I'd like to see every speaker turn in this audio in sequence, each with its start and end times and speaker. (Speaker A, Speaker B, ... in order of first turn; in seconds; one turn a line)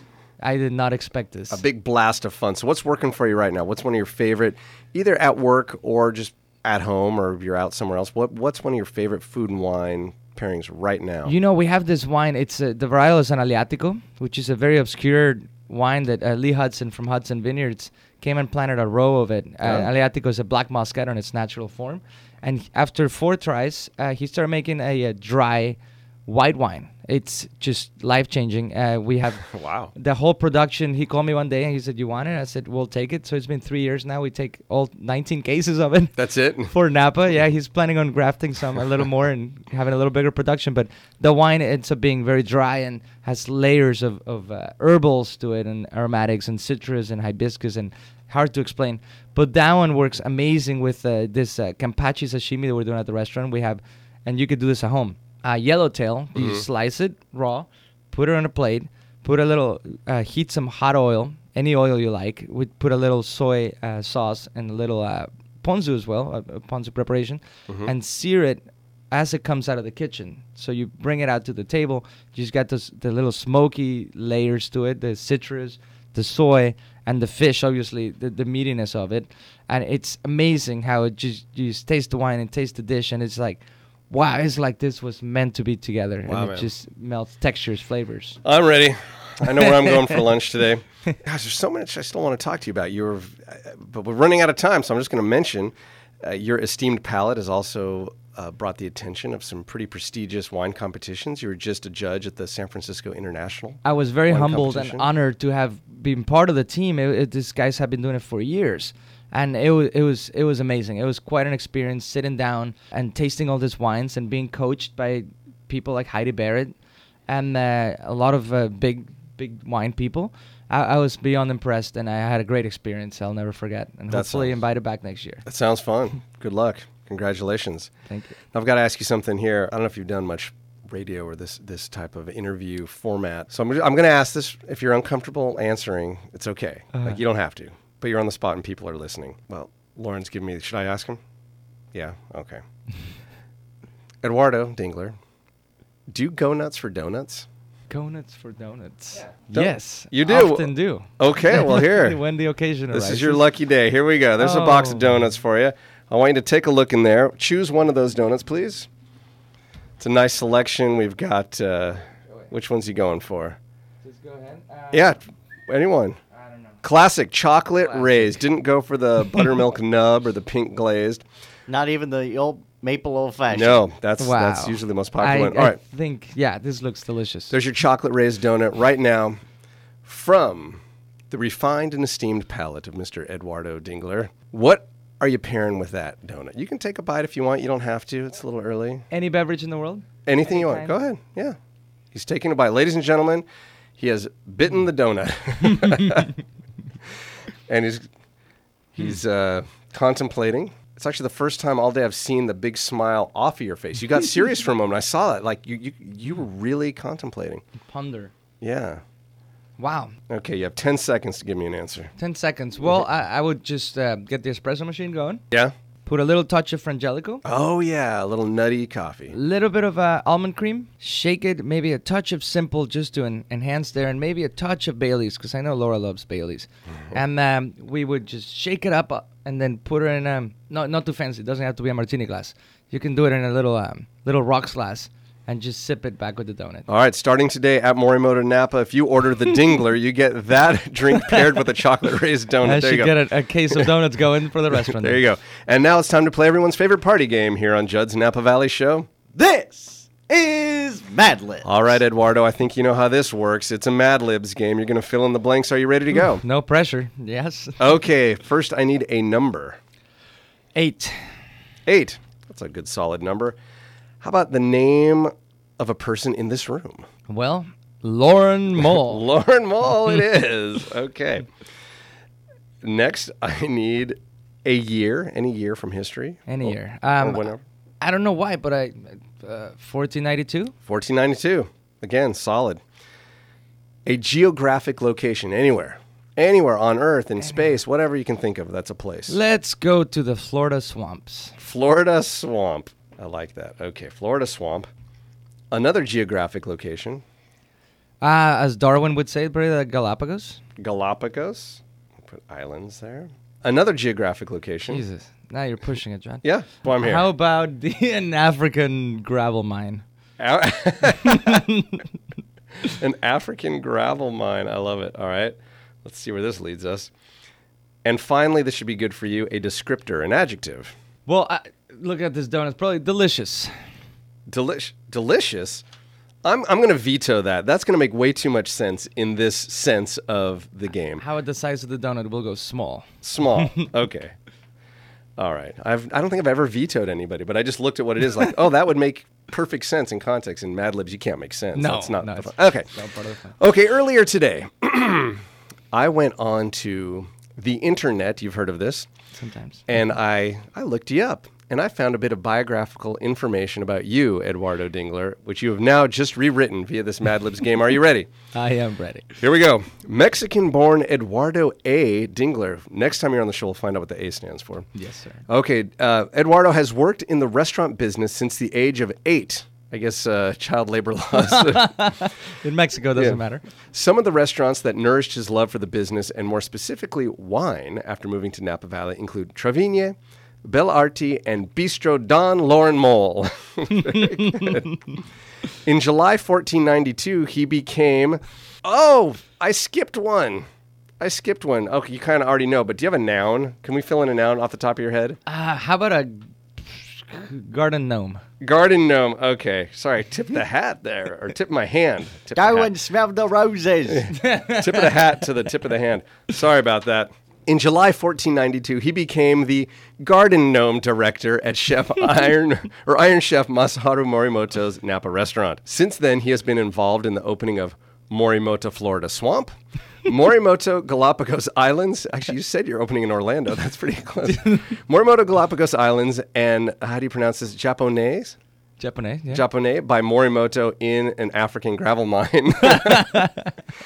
Speaker A: 0.4-1.6
Speaker B: 1.5-11.3
Speaker A: 11.2-36.1
Speaker B: 19.6-19.9
Speaker B: 29.4-29.9
Speaker B: 36.2-36.7
Speaker A: 36.7-88.4
Speaker B: 56.4-56.7
Speaker B: 86.3-86.7
Speaker B: 88.4-105.1
Speaker A: 89.6-90.0
Speaker A: 103.8-116.7
Speaker A: 117.3-125.5
Speaker B: 124.1-124.6
Speaker B: 125.5-127.9
Speaker A: 128.1-128.3
Speaker B: 128.5-141.2
Speaker A: 136.9-137.2
Speaker B: 141.9-142.6
Speaker B: 144.2-145.2
Speaker B: 146.1-147.5
Speaker A: 147.9-153.4
Speaker B: 149.5-152.2
Speaker B: 152.9-158.9
Speaker A: 154.4-155.1
Speaker B: 160.0-163.6
Speaker A: 164.0-165.2
Speaker B: 164.9-166.2
Speaker A: 166.4-166.8
Speaker B: 166.8-171.2
Speaker A: 167.8-168.3
Speaker C: 171.7-173.8
Speaker B: 173.5-175.8
Speaker A: 174.2-177.6
Speaker B: 177.5-179.4
Speaker B: 180.0-189.1
Speaker A: 189.1-190.9
Speaker B: 190.3-191.6
Speaker B: 192.1-193.4
Speaker B: 194.0-196.3
Speaker B: 197.7-198.1
Speaker B: 198.9-207.6
Speaker A: 207.8-208.3
Speaker B: 208.6-209.0
Speaker A: 209.8-210.2
Speaker B: 210.3-212.1
Speaker A: 212.2-215.4
Speaker A: 216.1-217.4
Speaker B: 217.4-219.3
Speaker A: 219.3-236.9
Speaker B: 236.9-243.2
Speaker A: 241.2-241.5
Speaker A: 242.6-245.2
Speaker B: 244.7-249.1
Speaker C: 249.3-251.9
Speaker B: 251.6-256.4
Speaker A: 256.3-257.8
Speaker B: 257.8-259.8
Speaker A: 260.8-261.4
Speaker B: 261.9-263.6
Speaker B: 264.2-267.1
Speaker A: 267.3-269.2
Speaker B: 268.9-271.5
Speaker B: 272.8-277.6
Speaker A: 276.5-280.7
Speaker B: 280.8-282.8
Speaker B: 284.1-289.4
Speaker A: 289.3-291.6
Speaker B: 291.6-294.9
Speaker B: 295.7-297.2
Speaker A: 298.2-300.6
Speaker B: 300.8-305.0
Speaker A: 304.9-310.1
Speaker B: 306.4-307.3
Speaker B: 310.4-311.6
Speaker A: 311.2-312.1
Speaker B: 312.8-317.1
Speaker B: 318.0-320.9
Speaker A: 321.3-323.8
Speaker B: 324.5-325.8
Speaker B: 326.4-331.2
Speaker A: 331.2-333.9
Speaker B: 333.2-334.4
Speaker B: 335.4-342.9
Speaker A: 341.8-343.6
Speaker B: 343.6-349.1
Speaker A: 349.4-349.9
Speaker B: 349.9-358.3
Speaker A: 358.5-359.4
Speaker B: 359.4-364.9
Speaker A: 364.9-365.4
Speaker B: 365.5-372.3
Speaker A: 371.4-373.6
Speaker B: 373.1-384.9
Speaker A: 384.1-385.0
Speaker B: 385.9-390.7
Speaker B: 391.2-395.4
Speaker A: 395.5-398.4
Speaker B: 398.6-402.9
Speaker C: 402.6-404.3
Speaker B: 404.1-428.6
Speaker A: 404.3-405.2
Speaker A: 429.0-429.6
Speaker B: 429.5-433.5
Speaker A: 432.9-433.7